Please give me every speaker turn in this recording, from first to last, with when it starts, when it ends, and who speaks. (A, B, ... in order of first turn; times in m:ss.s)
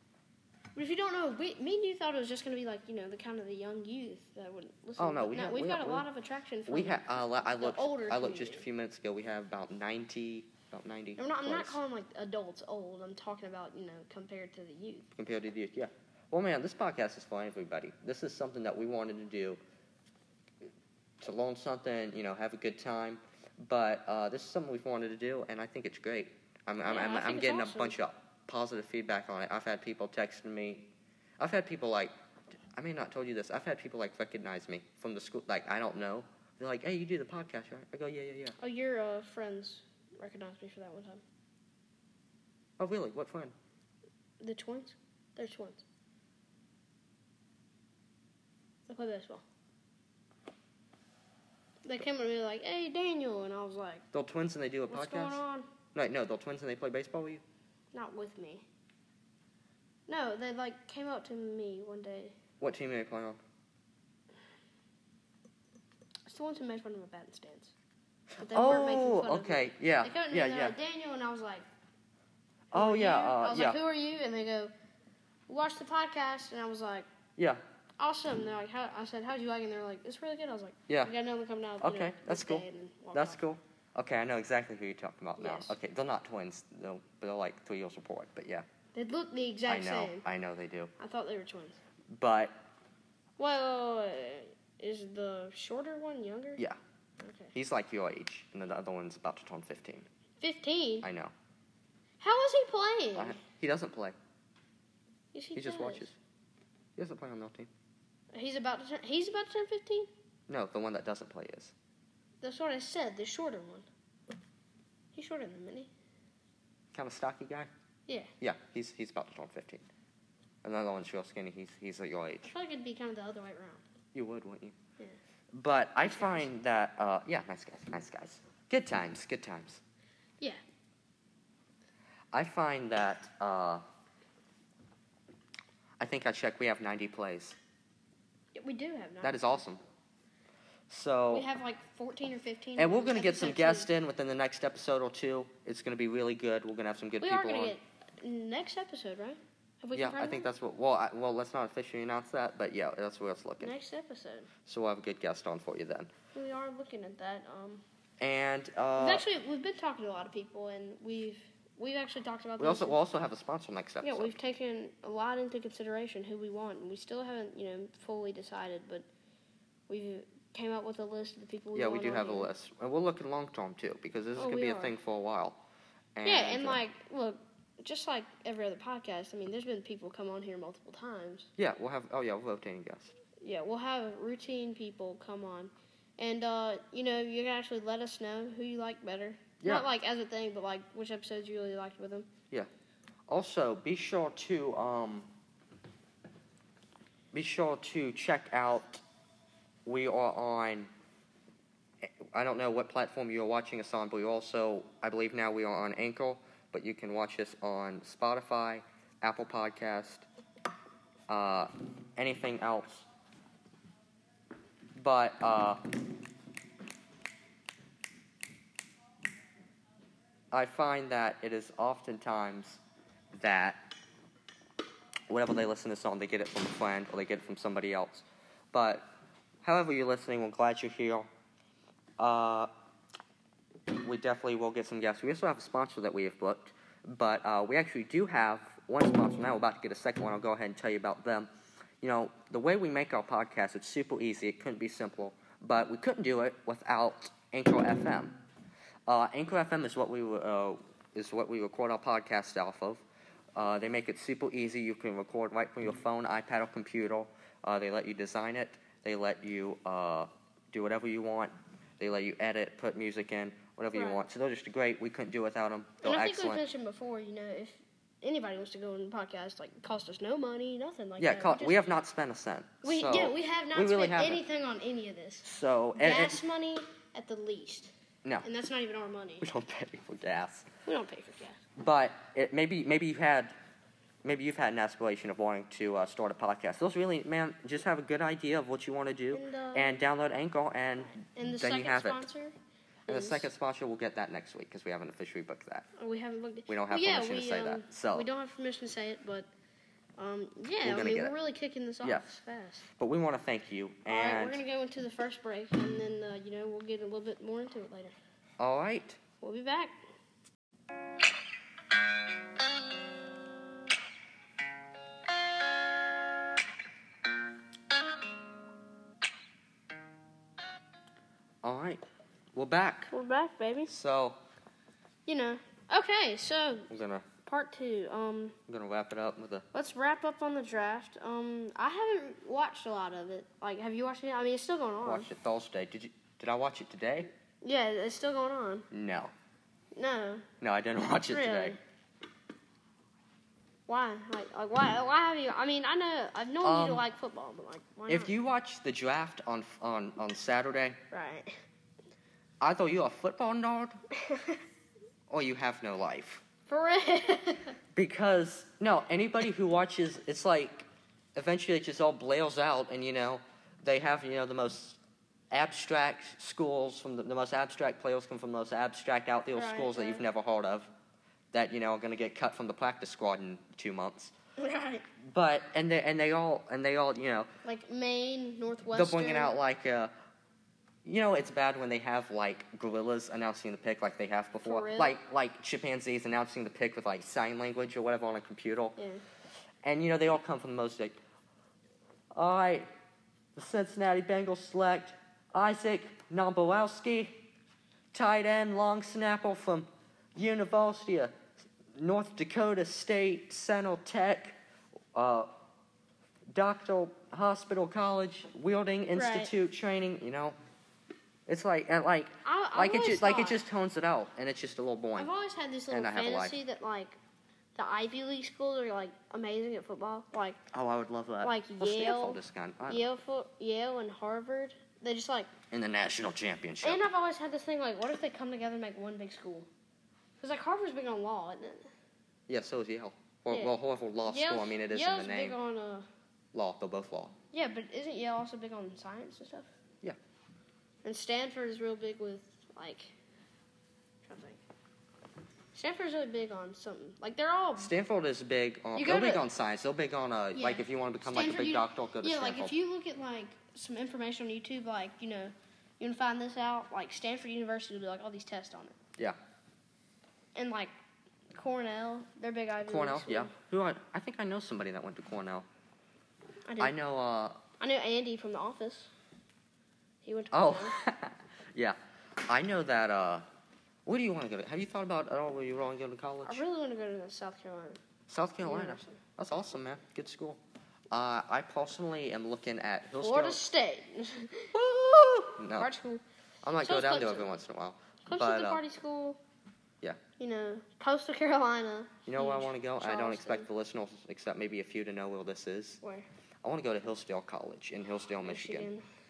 0:00.7-0:08.7 A
0:05.0-0:06.1 B
0:06.7-0:11.8 B
0:11.2-0:15.1 A
0:15.1-0:19.6 B
0:21.2-0:30.9 B
0:26.8-0:27.9 A
0:31.4-0:32.1 B
0:32.7-0:38.6 B
0:38.6-0:41.2 A
0:42.8-0:43.5 B
0:44.4-0:45.8 A
0:48.9-0:49.4 A
0:51.8-0:54.0 A
0:54.1-0:55.4 B
0:54.9-0:55.7 A
0:55.9-0:57.4 B
0:57.9-0:58.6 A
1:00.1-1:02.4 A
1:02.6-1:03.4 B
1:06.2-1:07.7 A
1:08.4-1:10.8 B
1:08.4-1:11.6 A
1:12.7-1:13.8 B
1:12.7-1:14.7 A
1:15.5-1:17.1 A
1:18.0-1:23.4 A
1:20.9-1:21.1 B
1:21.8-1:28.6 B
1:25.4-1:25.8 A
1:28.9-1:30.2 A
1:29.7-1:30.9 B
1:31.0-1:31.8 A
1:32.1-1:32.6 B
1:33.4-1:36.6 A
1:37.2-1:37.5 A
1:37.5-1:40.1 B
1:40.4-1:41.1 A
1:41.0-1:41.3 B
1:42.2-1:43.4 A
1:43.1-1:44.2 B
1:45.3-1:46.1 A
1:45.5-1:46.2 B
1:47.0-1:47.7 B
1:48.3-1:50.1 A
1:50.5-1:51.7 B
1:52.4-1:53.9 A
1:55.1-1:55.9 A
1:56.9-1:57.7 B
1:58.1-1:58.3 A
1:58.4-1:59.8 B
2:00.6-2:02.5 B
2:02.5-2:03.8 A
2:04.1-2:04.8 B
2:05.5-2:09.8 B
2:06.0-2:06.5 A
2:12.3-2:13.8 B
2:16.0-2:17.6 B
2:18.5-2:19.4 A
2:19.2-2:19.8 B
2:20.9-2:21.5 B
2:21.3-2:23.9 A
2:22.8-2:27.7 B
2:27.2-2:30.5 A
2:29.9-2:33.7 B
2:33.6-2:34.5 A
2:34.6-2:36.1 B
2:36.3-2:37.8 A
2:38.2-2:39.2 B
2:39.0-2:43.0 A
2:42.6-2:44.4 B
2:44.0-2:49.1 A
2:49.9-2:52.5 A
2:51.7-2:55.6 B
2:54.4-2:54.9 A
2:56.1-2:56.8 B
2:56.2-3:01.5 A
3:01.6-3:03.2 B
3:03.4-3:12.3 A
3:09.6-3:09.9 B
3:13.3-3:15.3 B
3:17.3-3:19.0 B
3:19.8-3:20.9 B
3:22.0-3:30.3 B
3:31.3-3:33.1 B
3:35.0-3:35.8 B
3:40.5-3:42.8 B
3:43.3-3:43.9 B
3:45.3-3:49.1 B
3:49.6-3:51.3 B
3:52.2-3:52.7 B
3:54.0-4:01.5 B
4:02.0-4:08.4 B
4:09.1-4:13.0 B
4:13.5-4:26.6 B
4:23.9-4:24.2 A
4:26.0-4:31.8 A
4:31.2-4:34.4 B
4:32.8-4:37.9 A
4:35.4-4:36.4 B
4:38.4-4:39.4 A
4:39.4-4:40.7 B
4:40.8-4:41.6 A
4:41.8-4:43.5 B
4:44.2-4:52.2 B
4:49.3-4:50.0 A
4:51.2-4:52.5 A
4:53.1-4:53.5 A
4:53.1-4:55.9 B
4:56.0-4:59.5 A
4:56.7-4:58.3 B
5:00.2-5:02.9 A
5:00.8-5:01.3 B
5:02.0-5:02.3 B
5:03.0-5:04.6 B
5:04.1-5:08.1 A
5:08.6-5:09.2 B
5:09.4-5:10.0 A
5:21.6-5:22.0 B
5:22.5-5:23.1 B
5:23.1-5:23.9 A
5:23.9-5:24.4 B
5:25.2-5:26.9 A
5:26.9-5:27.3 B
5:27.4-5:28.6 A
5:28.7-5:29.7 B
5:29.7-5:35.3 A
5:35.0-5:37.3 B
5:37.6-5:38.9 A
5:38.9-5:39.3 B
5:39.9-5:40.5 A
5:40.6-5:41.8 B
5:41.3-5:41.8 A
5:43.9-5:48.3 A
5:46.6-5:47.0 B
5:48.1-5:51.0 B
5:51.1-5:51.6 A
5:52.6-5:54.0 B
5:54.1-5:54.6 A
5:55.3-5:56.4 B
5:56.7-5:57.8 A
5:57.9-6:05.0 B
6:05.5-6:10.9 B
6:09.5-6:10.2 A
6:11.5-6:14.3 B
6:14.6-6:15.0 A
6:15.2-6:17.5 B
6:17.6-6:19.5 A
6:18.9-6:20.1 B
6:21.0-6:29.0 B
6:24.6-6:25.1 A
6:29.0-6:29.2 A
6:29.8-6:31.2 B
6:32.3-6:32.9 B
6:33.6-6:37.4 B
6:38.1-6:41.4 B
6:42.0-6:44.6 B
6:45.1-6:45.5 B
6:46.5-6:50.6 B
6:49.1-6:49.5 A
6:51.5-6:55.3 B
6:52.4-6:53.6 A
6:55.2-6:57.2 A
6:55.9-6:56.6 B
6:57.7-7:00.6 A
7:00.7-7:03.1 B
7:01.4-7:05.5 A
7:05.7-7:07.0 B
7:06.8-7:09.7 A
7:10.4-7:11.9 A
7:12.5-7:15.6 B
7:14.2-7:16.1 A
7:16.5-7:17.3 B
7:17.5-7:19.7 A
7:21.0-7:23.1 A
7:24.2-7:24.6 A
7:25.7-7:27.9 A
7:27.8-7:32.7 B
7:29.0-7:29.4 A
7:30.5-7:39.0 A
7:40.5-7:40.9 A
7:41.5-7:43.5 A
7:42.8-7:45.7 B
7:46.7-7:46.9 A
7:46.8-7:47.6 B
7:47.8-7:49.1 A
7:50.2-7:51.0 A
7:50.5-7:53.4 B
7:54.0-7:56.6 B
7:56.4-7:58.0 A
7:58.3-8:03.6 B
7:58.6-7:59.2 A
8:03.2-8:04.7 A
8:04.7-8:05.9 B
8:05.6-8:06.2 A
8:06.6-8:08.8 B
8:06.8-8:07.5 A
8:08.2-8:09.4 A
8:10.4-8:13.7 A
8:12.2-8:16.0 B
8:16.0-8:16.3 A
8:16.6-8:18.9 B
8:18.4-8:19.0 A